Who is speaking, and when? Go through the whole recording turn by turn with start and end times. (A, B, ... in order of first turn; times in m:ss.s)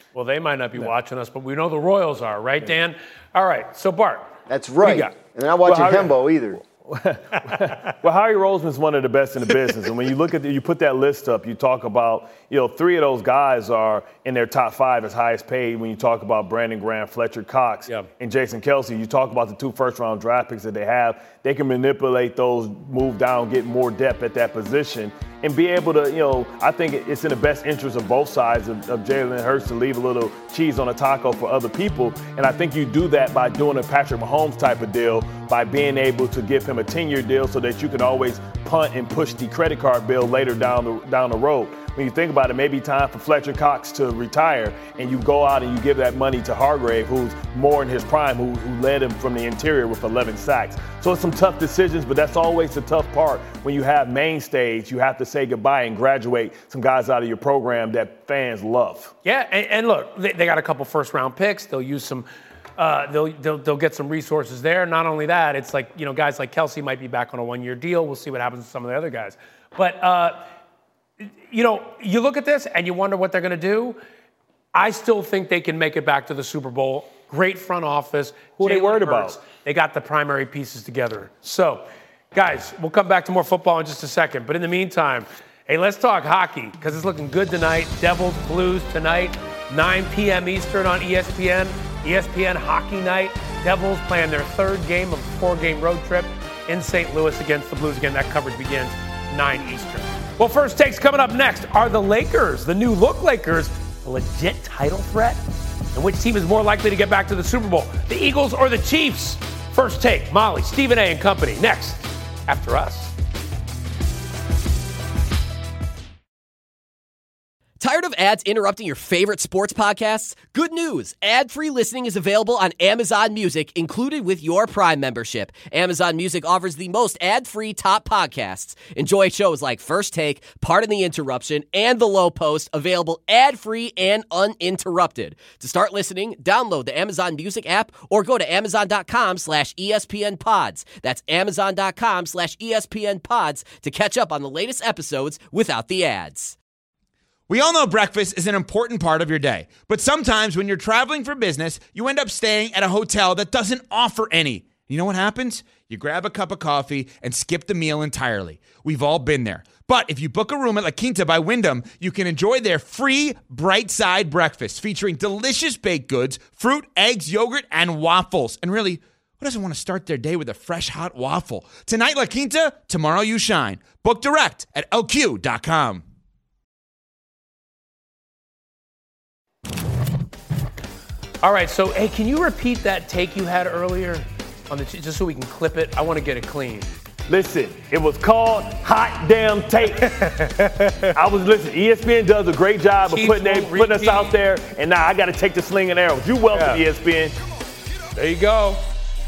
0:00.1-0:04.3 A
0:04.5-0:06.6 B
0:04.8-0:05.1 A
0:05.6-0:59.1 C
0:59.2-1:10.5 A
1:11.2-1:14.0 A
1:14.7-1:45.4 A
1:18.6-1:19.4 C
1:45.9-1:53.1 A
1:57.8-2:26.5 D
2:27.5-2:56.0 E
3:01.4-3:06.9 A
3:07.3-3:10.2 C
3:10.0-3:11.1 A
3:11.2-3:17.3 C
3:13.0-3:14.4 A
3:16.5-3:16.8 A
3:18.1-3:18.8 A